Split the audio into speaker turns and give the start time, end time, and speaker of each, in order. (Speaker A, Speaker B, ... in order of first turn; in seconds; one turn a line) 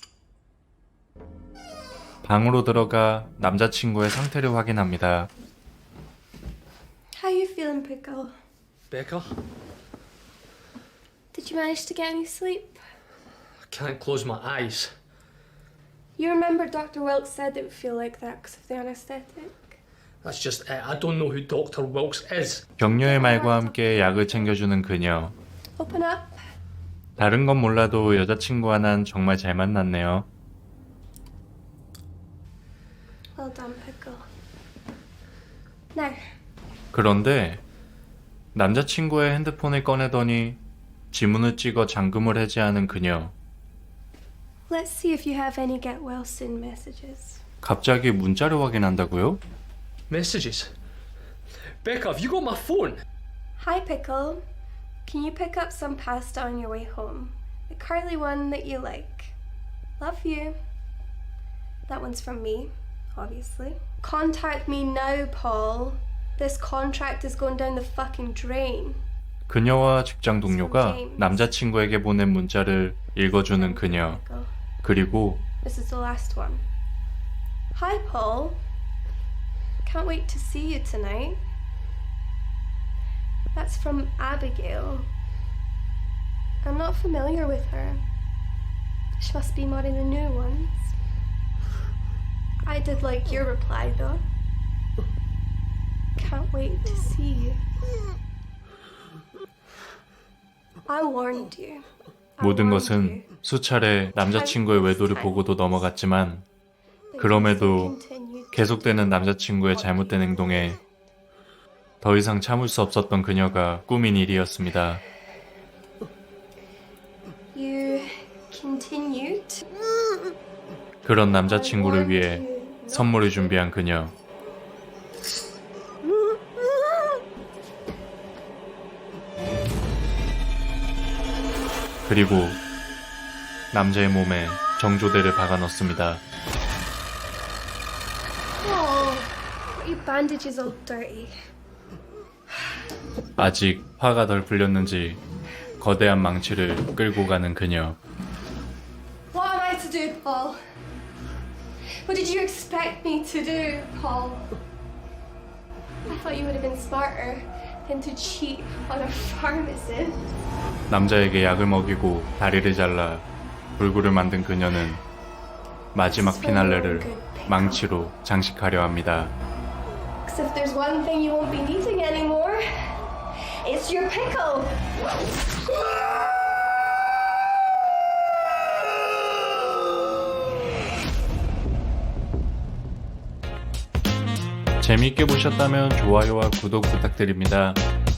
Speaker A: 2.2-5.3
Speaker B: 7.2-8.3
Speaker C: 8.9-9.4
Speaker B: 11.3-12.8
Speaker C: 13.7-14.9
Speaker B: 16.2-19.8
Speaker C: 20.2-22.7
Speaker A: 22.8-25.3
Speaker B: 22.9-24.5
Speaker B: 25.8-26.4
Speaker A: 27.2-30.3
Speaker B: 33.4-34.3
Speaker B: 35.9-36.3
Speaker A: 36.9-37.6
Speaker A: 38.5-40.6
Speaker A: 41.1-43.3
Speaker B: 44.7-47.4
Speaker A: 47.6-49.4
Speaker C: 50.1-50.7
Speaker C: 51.8-53.0
Speaker B: 53.6-54.4
Speaker B: 55.0-59.3
Speaker B: 60.0-60.6
Speaker B: 61.9-69.0
Speaker A: 69.5-74.2
Speaker B: 70.4-71.5
Speaker B: 73.3-74.5
Speaker A: 74.8-75.4
Speaker B: 75.6-76.6
Speaker B: 77.7-78.6
Speaker B: 79.8-81.4
Speaker B: 83.5-85.1
Speaker B: 86.6-88.0
Speaker B: 89.2-90.9
Speaker B: 92.6-94.2
Speaker B: 96.2-97.6
Speaker B: 100.9-101.9
Speaker B: 102.4-103.3
Speaker A: 102.4-106.4
Speaker B: 104.2-105.7
Speaker B: 107.1-110.8
Speaker A: 107.2-107.9
Speaker A: 108.5-110.8
Speaker A: 112.0-115.0
Speaker B: 117.5-119.7
Speaker A: 121.0-124.1
Speaker B: 121.4-123.6
Speaker A: 132.1-132.6
Speaker A: 133.7-136.2
Speaker B: 138.6-141.3
Speaker A: 143.4-145.2
Speaker A: 145.8-148.0
Speaker B: 149.3-150.6
Speaker B: 152.1-154.5
Speaker B: 156.1-160.2
Speaker A: 160.9-163.3
Speaker A: 163.8-165.0
Speaker A: 165.9-169.3
Speaker B: 166.1-167.8
Speaker B: 170.3-173.0
Speaker B: 173.6-174.8
Speaker A: 184.8-187.8